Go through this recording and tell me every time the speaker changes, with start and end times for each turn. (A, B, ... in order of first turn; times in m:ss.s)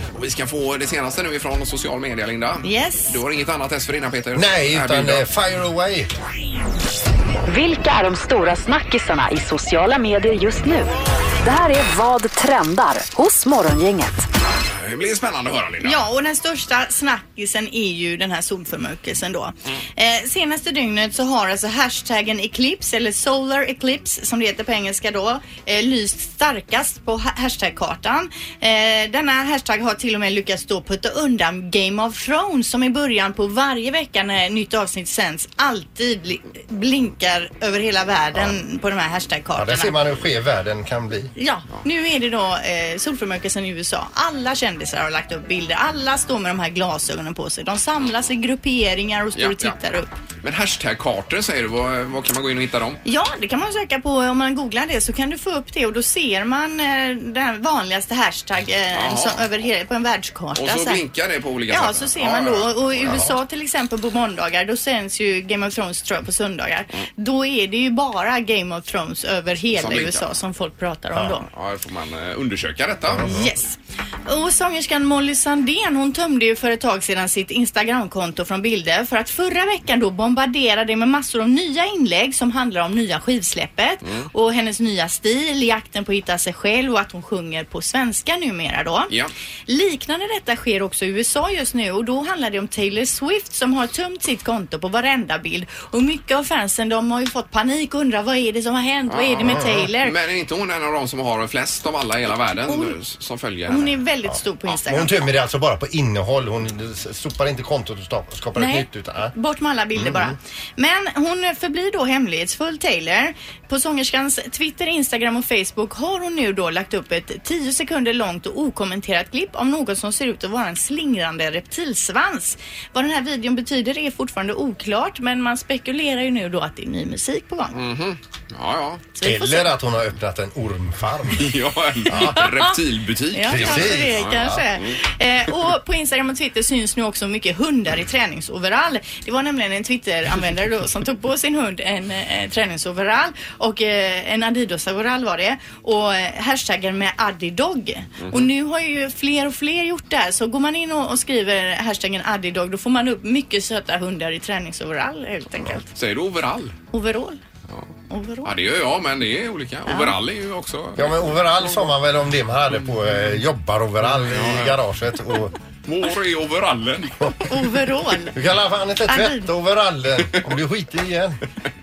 0:00.1-0:05.2 A
0:02.6-0:03.2 B
0:04.3-0:06.1 C
0:07.5-0:10.9 D
0:11.4-0:14.3 D
0:14.7-0:16.0 A
0:15.8-0:40.0 B
0:39.6-0:41.3 C
0:41.4-0:50.1 B
0:49.4-0:49.7 A
0:50.4-0:53.0 A
0:53.0-1:01.0 B
0:58.9-0:59.4 A
1:00.6-1:03.3 A
1:01.7-1:11.4 B
1:03.0-1:03.3 C
1:09.7-1:10.3 A
1:11.5-1:13.3 A
1:13.1-1:13.5 C
1:13.2-1:29.1 B
1:24.0-1:24.3 A
1:29.7-1:40.1 B
1:39.1-1:44.0 A
1:39.4-1:39.8 C
1:42.6-1:43.0 B
1:43.7-1:45.1 B
1:44.8-1:49.3 C
1:48.6-2:07.8 B
1:50.0-1:50.3 C
2:07.7-2:09.0 A
2:09.2-2:09.7 B
2:09.2-2:11.5 C
2:11.4-2:14.5 A
2:12.0-2:12.4 C
2:12.1-2:12.7 B
2:13.3-2:35.9 B
2:13.5-2:14.6 C
2:28.2-2:28.5 A
2:35.9-2:36.8 A
2:36.9-2:37.4 B
2:38.1-2:38.5 B
2:38.4-2:41.3 A
2:39.9-2:40.1 B
2:41.0-2:45.5 C
2:44.2-2:44.8 A
2:45.8-2:47.3 A
2:47.4-2:48.4 B
2:48.3-2:51.4 C
2:49.1-2:49.5 B